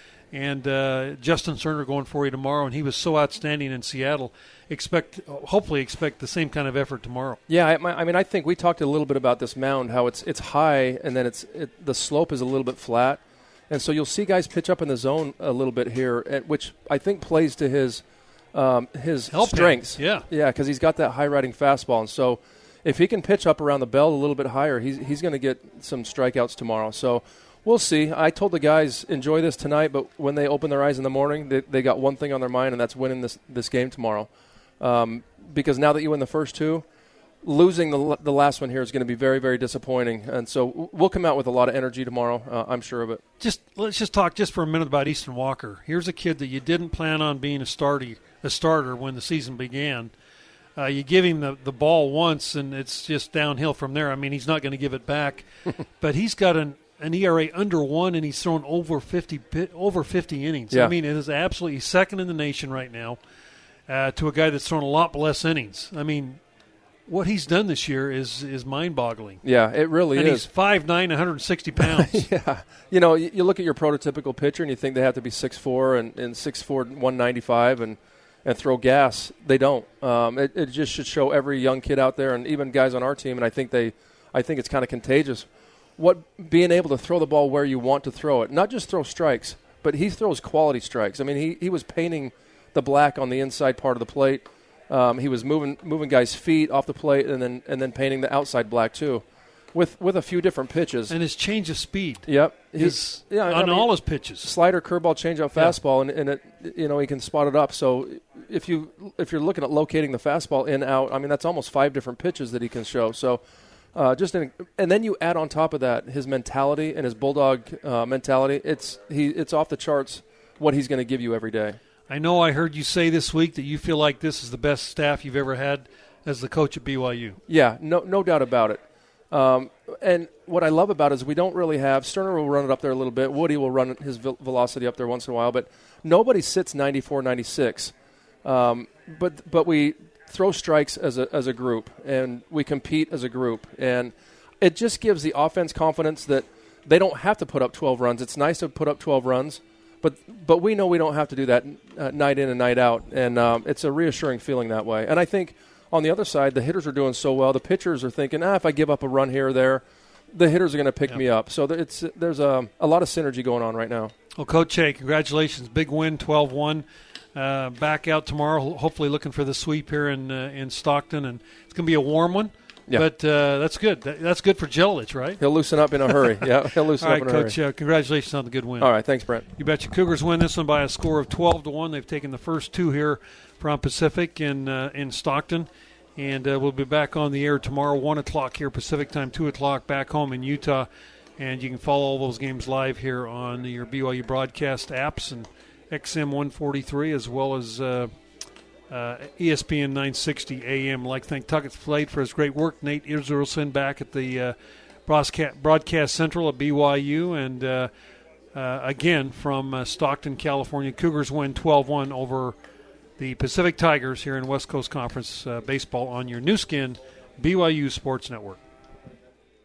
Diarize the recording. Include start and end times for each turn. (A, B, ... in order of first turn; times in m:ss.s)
0:00.3-0:07.4 A
0:07.5-0:18.0 B
0:18.5-0:34.3 B
0:19.3-0:20.3 A
0:34.8-0:36.9 B
0:37.4-0:43.2 B
0:43.4-0:50.1 A
0:50.8-0:55.4 A
0:56.0-1:03.2 A
1:03.9-1:06.4 A
1:07.1-1:09.4 A
1:09.4-1:10.5 B
1:10.1-1:12.3 A
1:11.8-1:25.5 B
1:26.0-1:41.1 B
1:41.1-1:44.5 A
1:42.3-1:53.4 B
1:53.9-2:01.8 B
2:02.1-2:07.4 A
2:07.5-2:17.9 B
2:18.4-2:44.1 B
2:44.4-2:55.4 A
2:55.4-2:57.6 B
2:56.1-3:18.1 A
2:58.8-2:59.4 B
3:18.9-3:24.6 A
3:25.1-3:27.9 A
3:28.5-3:32.6 A
3:33.2-3:38.6 A